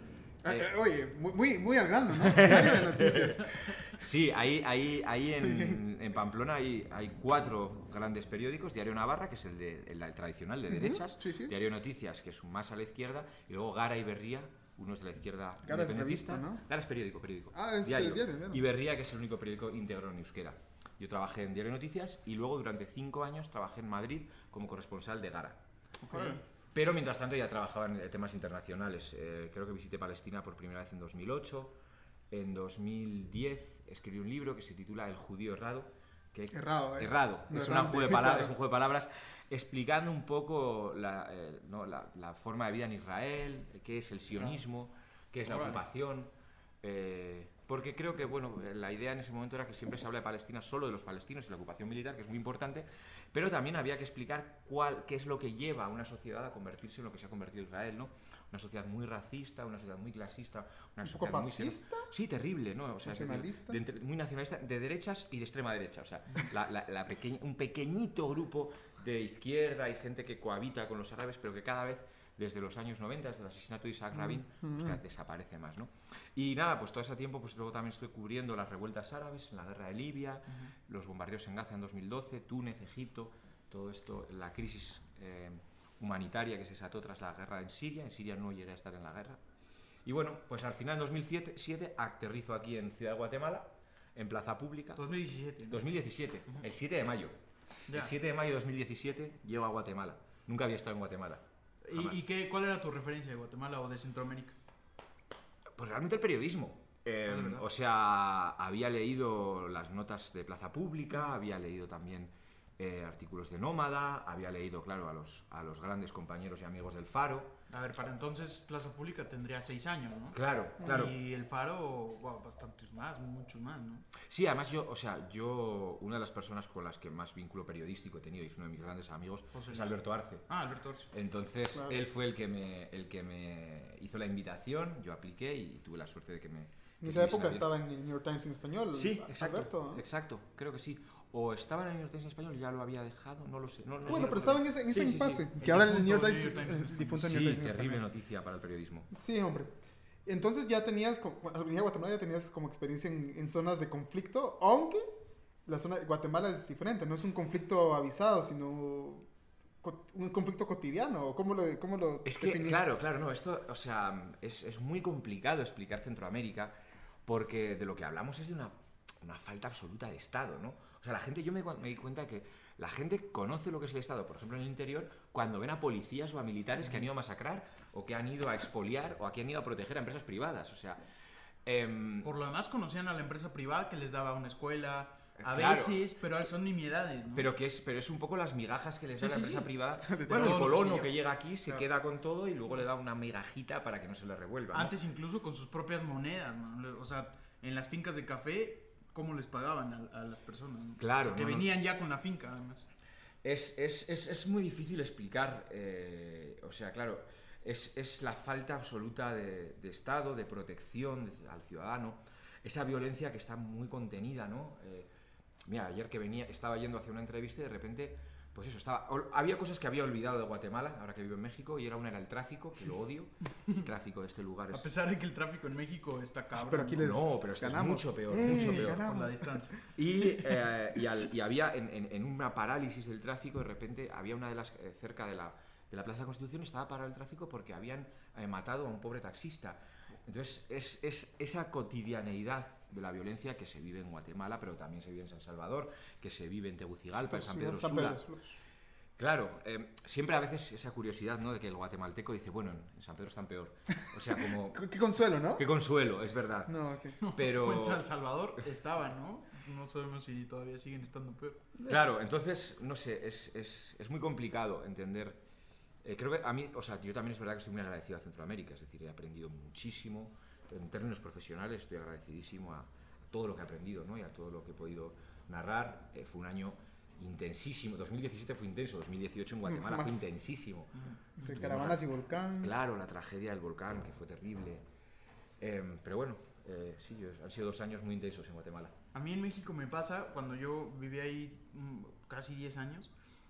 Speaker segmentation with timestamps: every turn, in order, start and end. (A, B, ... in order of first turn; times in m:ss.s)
0:00.4-0:03.6 A
0:00.4-0:00.7 B
0:02.1-0:25.6 B
0:05.5-0:05.8 A
0:10.7-0:11.5 A
0:15.6-0:16.6 A
0:17.5-0:18.6 A
0:26.0-0:26.4 C
0:26.1-0:26.4 A
0:26.7-0:31.8 B
0:32.3-0:46.3 B
0:36.5-0:38.5 A
0:45.5-0:45.8 C
0:46.8-1:29.4 B
1:01.0-1:02.1 A
1:03.0-1:03.8 A
1:14.2-1:15.0 A
1:30.0-1:35.0 B
1:35.0-1:35.9 C
1:35.7-1:37.3 B
1:37.9-1:38.1 C
1:37.9-1:42.2 B
1:41.8-1:44.6 C
1:45.8-1:57.5 B
1:47.3-1:47.6 C
1:57.7-2:04.1 C
2:00.3-2:01.1 B
2:04.2-2:10.4 B
2:09.5-2:11.1 C
2:11.1-2:17.7 B
2:17.0-2:20.0 A
2:18.9-2:25.4 B
2:24.0-2:28.0 A
2:25.6-2:27.1 C
2:27.0-2:29.1 B
2:29.1-2:29.7 A
2:30.2-2:35.1 A
2:35.6-2:39.3 A
2:39.8-2:42.9 A
2:42.2-3:01.0 B
3:01.6-3:02.3 B
3:02.2-3:07.5 C
3:05.4-3:06.0 B
3:07.3-3:14.9 B
3:09.2-3:09.7 C
3:10.0-3:10.7 A
3:10.3-3:11.8 C
3:14.7-3:22.9 C
3:21.0-3:21.7 B
3:23.4-3:35.1 B
3:35.6-3:44.9 B
3:44.7-3:47.2 C
3:46.7-3:49.6 A
3:47.0-3:49.0 B
3:48.4-3:49.9 C
3:50.0-4:08.3 B
4:07.3-4:08.5 A
4:09.2-4:14.8 B
4:14.7-4:15.6 A
4:15.5-4:16.7 B
4:16.7-4:17.2 A
4:17.2-4:21.6 C
4:17.3-4:18.0 B
4:21.9-4:25.4 B
4:26.0-4:42.0 B
4:39.6-4:40.3 A
4:41.0-4:41.5 C
4:41.4-4:42.7 A
4:42.6-4:44.8 B
4:45.6-4:48.9 B
4:49.1-4:53.1 C